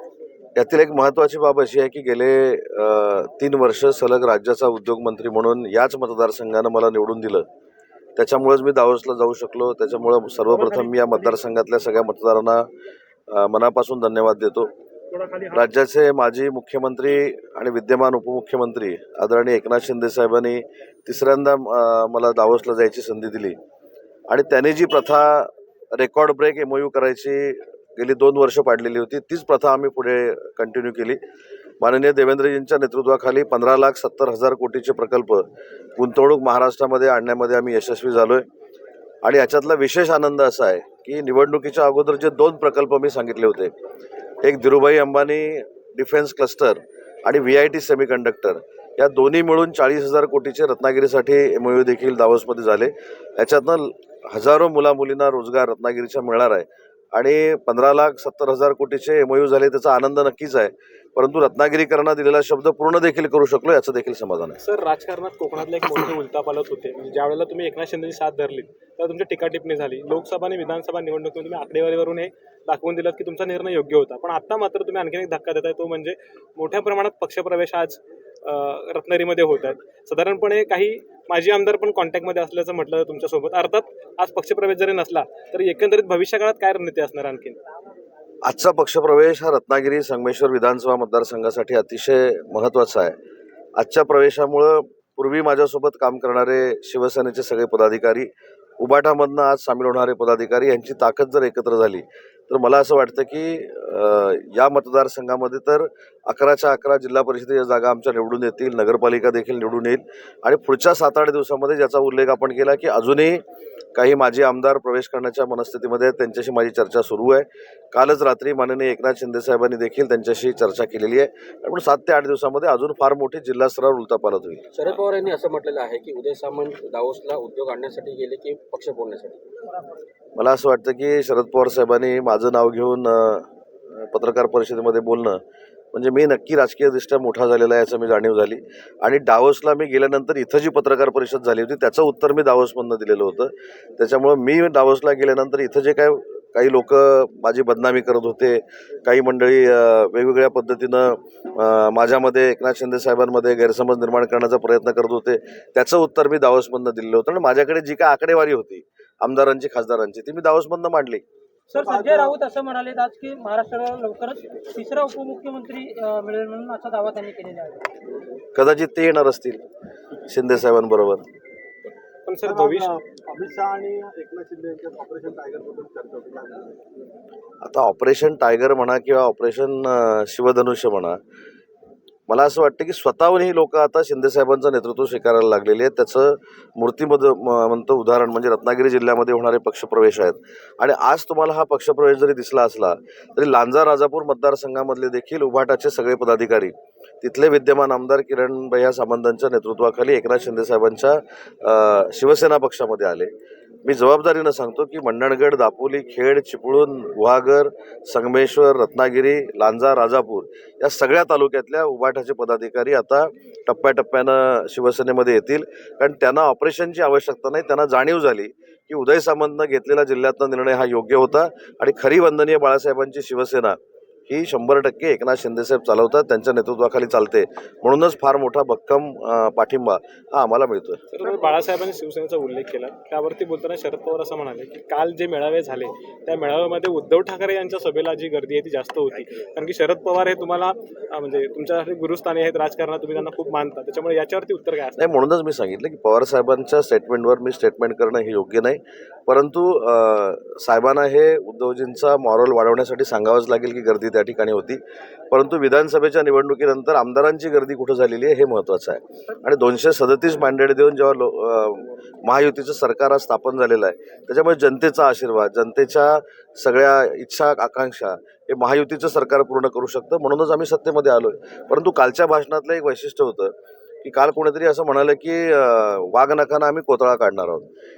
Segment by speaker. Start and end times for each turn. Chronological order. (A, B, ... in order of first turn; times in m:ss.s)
0:00.6-0:07.4 A
0:08.2-0:12.7 A
0:13.3-0:14.7 A
0:15.5-0:23.6 A
0:24.3-0:31.2 A
0:31.8-0:35.4 A
0:36.0-0:38.4 A
0:39.2-0:43.7 A
0:44.4-1:04.6 A
1:04.6-1:27.6 B
1:28.4-1:33.2 A
1:33.8-1:38.3 A
1:38.8-1:53.4 A
1:53.9-2:04.7 A
2:04.7-2:09.2 C
2:06.6-2:06.9 D
2:10.4-2:15.4 A
2:15.9-2:41.2 A
2:41.7-2:47.8 D
2:41.9-2:42.3 E
2:48.5-2:49.6 A
2:50.3-2:51.2 A
2:52.2-2:52.9 B
2:52.4-2:56.7 E
2:57.6-3:01.2 A
3:02.3-3:23.3 A
3:23.8-3:43.8 A
3:44.3-3:51.0 A
3:51.1-4:05.2 B
4:05.0-4:14.8 A
4:15.3-4:33.5 A
4:34.0-4:37.6 A